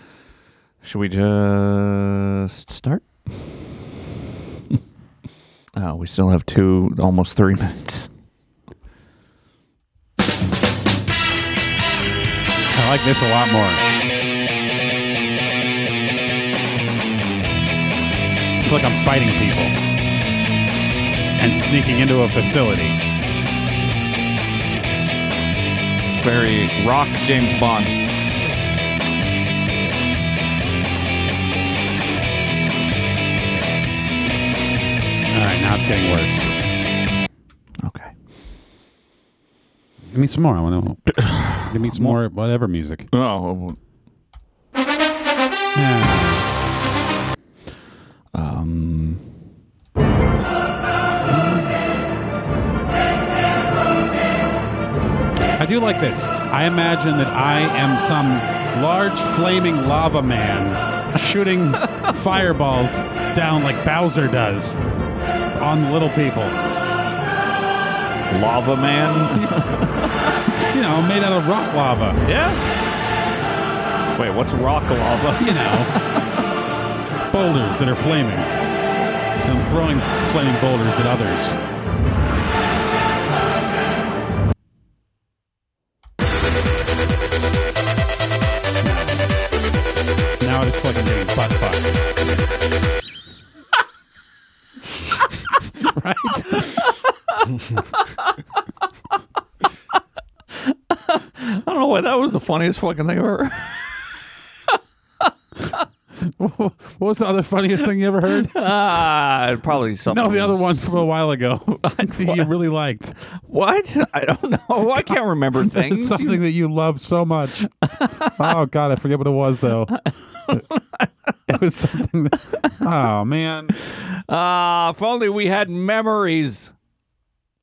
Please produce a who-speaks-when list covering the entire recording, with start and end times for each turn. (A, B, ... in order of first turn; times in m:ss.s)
0:00.8-0:03.0 A
0:05.8-0:08.1 A
0:12.7-0:13.8 B
0:18.6-0:19.7 B
0:21.4-0:23.0 B
0:26.1-0:27.9 A
0:35.3-0:36.5 B
0:37.8-0:38.1 A
0:40.1-0:43.1 B
0:41.2-0:42.2 A
0:43.1-0:43.8 A
0:45.7-0:46.5 B
0:48.3-0:49.2 A
0:51.3-0:51.7 B
0:55.6-1:04.8 B
1:05.6-1:06.6 B
1:08.3-1:10.1 A
1:09.4-1:09.7 B
1:10.7-1:12.2 B
1:12.2-1:12.6 A
1:14.2-1:16.2 A
1:15.4-1:15.9 B
1:17.3-1:18.5 B
1:19.4-1:21.6 B
1:28.8-1:29.3 B
1:30.4-1:32.2 B
1:35.8-1:36.9 B
1:36.6-1:37.4 A
1:37.9-1:38.3 A
1:40.6-1:43.8 A
1:46.3-1:48.6 B
1:48.3-1:51.1 A
1:50.1-1:53.1 B
1:51.7-1:52.5 A
1:53.4-1:56.4 A
1:54.9-1:57.7 B
1:58.0-1:58.5 A
1:58.4-1:59.9 B
2:00.5-2:01.1 A
2:01.5-2:03.7 B
2:04.0-2:06.7 A